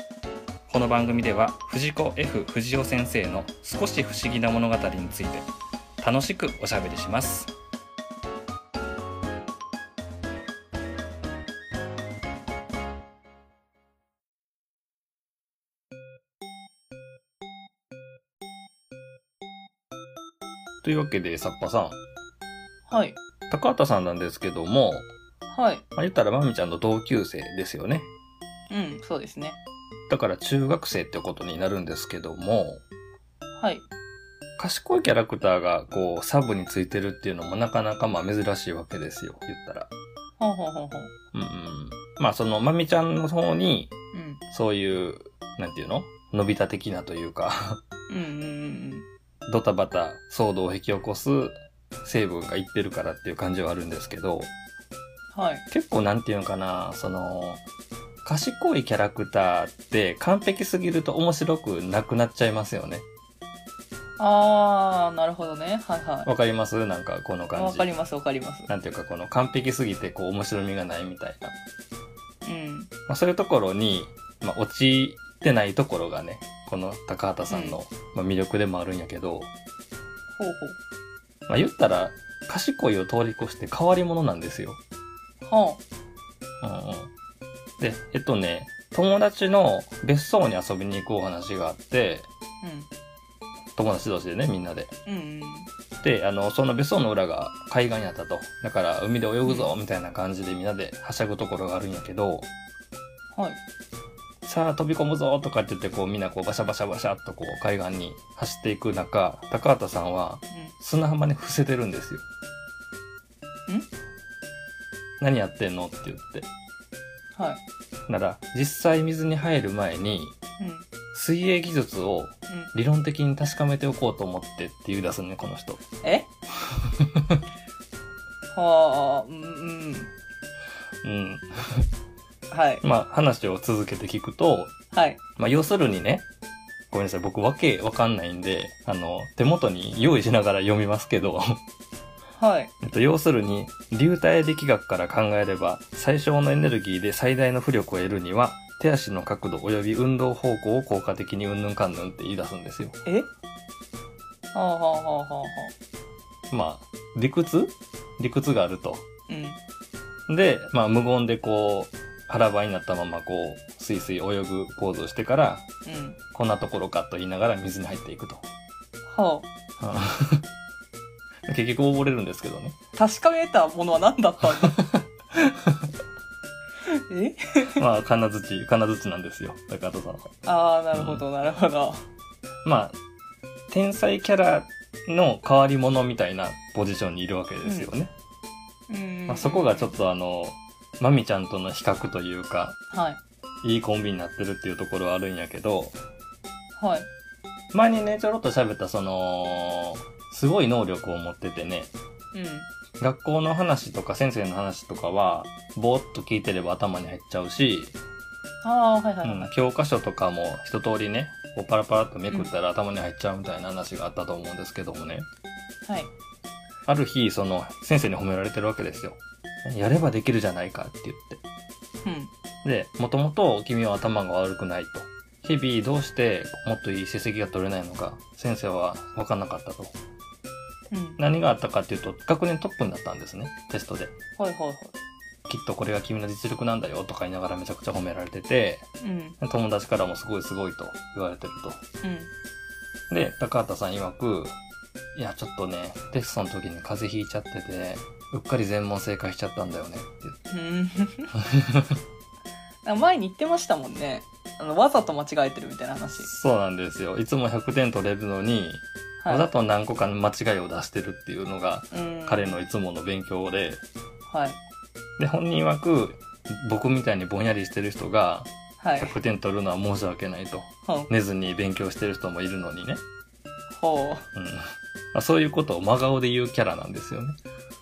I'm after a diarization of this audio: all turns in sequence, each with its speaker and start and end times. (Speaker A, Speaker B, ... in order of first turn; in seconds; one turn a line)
Speaker A: 0.7-5.5
Speaker A: 6.0-7.5
Speaker A: 20.8-22.0
Speaker B: 22.9-23.2
Speaker A: 23.5-25.1
Speaker B: 25.5-25.9
Speaker A: 26.0-28.1
Speaker B: 28.7-29.6
Speaker A: 30.1-32.8
Speaker B: 33.6-33.9
Speaker A: 34.6-39.9
Speaker B: 40.4-41.1
Speaker A: 41.3-43.9
Speaker B: 44.1-44.4
Speaker A: 44.5-47.8
Speaker B: 48.1-49.1
Speaker A: 49.5-54.5
Speaker B: 55.3-55.6
Speaker A: 55.7-57.6
Speaker A: 58.2-63.0
Speaker B: 64.2-66.3
Speaker A: 66.2-67.9
Speaker B: 67.6-68.7
Speaker A: 68.7-71.5
Speaker B: 72.4-72.9
Speaker A: 73.1-79.5
Speaker B: 77.5-77.8
Speaker B: 80.4-80.8
Speaker A: 81.5-84.8
Speaker B: 85.4-85.8
Speaker A: 86.6-87.1
Speaker A: 87.8-92.3
Speaker B: 92.6-92.9
Speaker A: 93.8-94.9
Speaker B: 95.1-95.7
Speaker A: 96.0-102.5
Speaker B: 99.4-99.7
Speaker B: 103.3-103.6
Speaker A: 104.5-112.2
Speaker A: 115.2-116.5
Speaker B: 117.4-117.6
Speaker A: 118.1-120.3
Speaker B: 120.6-120.9
Speaker A: 121.1-125.8
Speaker B: 126.0-126.3
Speaker A: 126.7-127.4
Speaker B: 128.5-130.1
Speaker A: 131.0-131.9
Speaker B: 132.5-132.8
Speaker A: 132.8-134.7
Speaker B: 134.9-135.2
Speaker A: 135.4-136.3
Speaker A: 136.9-141.6
Speaker B: 142.4-142.7
Speaker A: 142.8-153.0
Speaker B: 154.5-155.7
Speaker A: 156.5-159.1
Speaker B: 159.3-159.6
Speaker A: 160.3-165.7
Speaker B: 165.8-166.2
Speaker A: 166.3-168.4
Speaker B: 169.1-169.5
Speaker A: 169.8-170.5
Speaker A: 171.5-172.8
Speaker B: 172.9-174.8
Speaker A: 174.6-175.9
Speaker B: 176.9-177.8
Speaker A: 177.8-180.3
Speaker B: 180.4-182.0
Speaker A: 180.9-181.2
Speaker A: 182.7-183.0
Speaker A: 183.7-188.1
Speaker B: 187.6-187.9
Speaker B: 188.9-189.9
Speaker A: 189.3-192.8
Speaker B: 192.9-193.2
Speaker A: 193.6-196.0
Speaker B: 196.8-197.1
Speaker A: 197.7-201.9
Speaker B: 202.3-202.7
Speaker A: 203.0-208.0
Speaker B: 208.6-209.5
Speaker A: 209.2-215.3
Speaker B: 215.9-216.1
Speaker A: 216.9-221.4
Speaker B: 222.0-222.3
Speaker A: 222.6-229.9
Speaker B: 230.9-231.2
Speaker A: 231.2-234.2
Speaker B: 234.4-234.9
Speaker A: 235.5-238.9
Speaker B: 239.0-239.4
Speaker A: 239.4-241.8
Speaker B: 242.0-242.3
Speaker A: 243.1-244.5
Speaker A: 245.2-250.4
Speaker B: 250.5-251.3
Speaker A: 251.4-251.9
Speaker B: 252.8-256.3
Speaker A: 256.2-263.8
Speaker B: 259.2-259.5
Speaker B: 261.9-262.6
Speaker B: 264.3-264.6
Speaker A: 265.2-273.0
Speaker B: 268.8-269.1
Speaker B: 273.8-274.3
Speaker A: 274.4-277.4